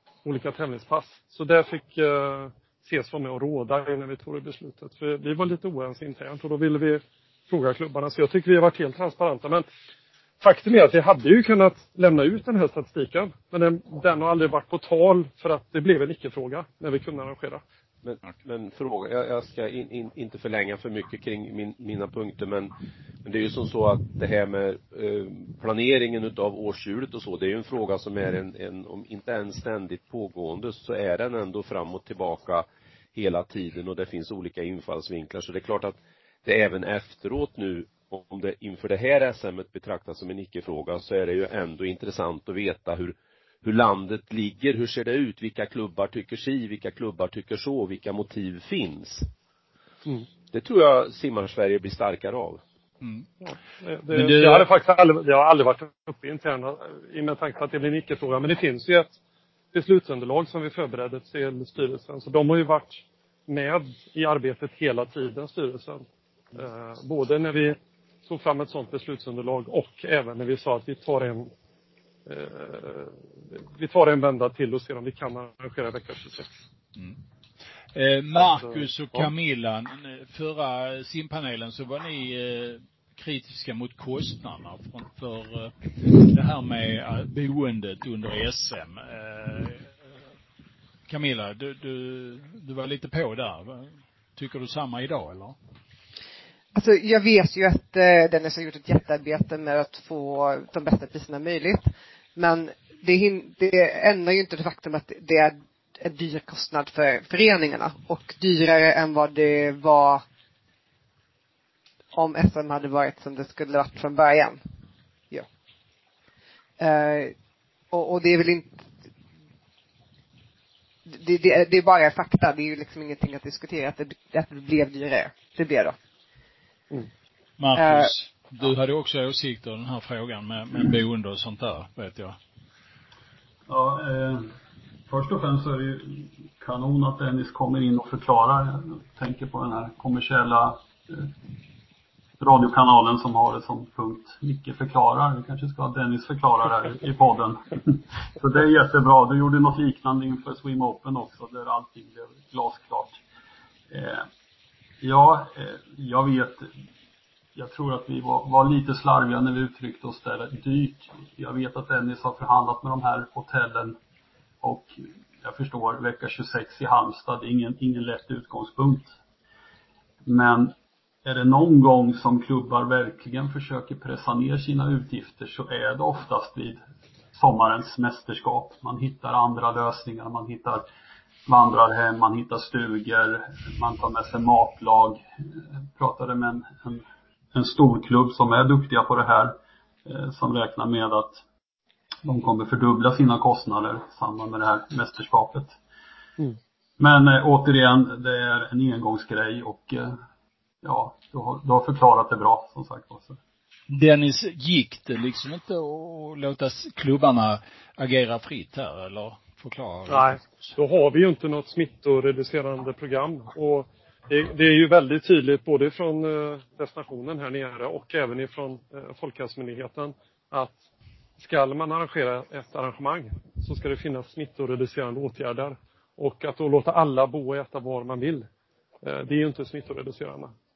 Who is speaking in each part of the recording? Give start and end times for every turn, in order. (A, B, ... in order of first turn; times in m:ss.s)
0:00.2-0:09.7 A
0:10.4-0:17.6 A
0:18.0-0:22.7 B
0:23.2-0:49.3 B
0:50.5-0:52.6 B
0:53.4-0:59.1 A
0:54.1-0:54.7 C
0:59.7-1:11.5 A
1:12.3-1:16.5 A
1:17.9-1:29.9 C
1:18.4-1:19.3 A
1:31.1-1:35.6 C
1:36.7-1:50.2 D
1:52.1-1:54.6 D
1:56.8-1:57.3 D
1:57.9-1:58.8 D
2:01.1-2:06.0 D
2:07.6-2:12.4 C
2:07.8-2:08.1 D
2:13.7-2:14.5 E
2:15.1-2:21.3 E
2:22.4-2:33.2 E
2:33.9-2:34.3 E
2:35.0-2:36.7 E
2:37.6-2:44.0 E
2:44.6-2:49.2 E
2:50.2-2:56.8 E
2:57.3-3:00.8 E
3:01.5-3:07.0 E
3:07.5-3:11.4 E
3:12.2-3:15.8 E
3:17.0-3:20.2 E
3:20.8-3:23.4 E
3:23.9-3:30.7 C
3:30.1-3:40.8 A
3:41.4-3:48.5 A
3:49.0-3:50.5 A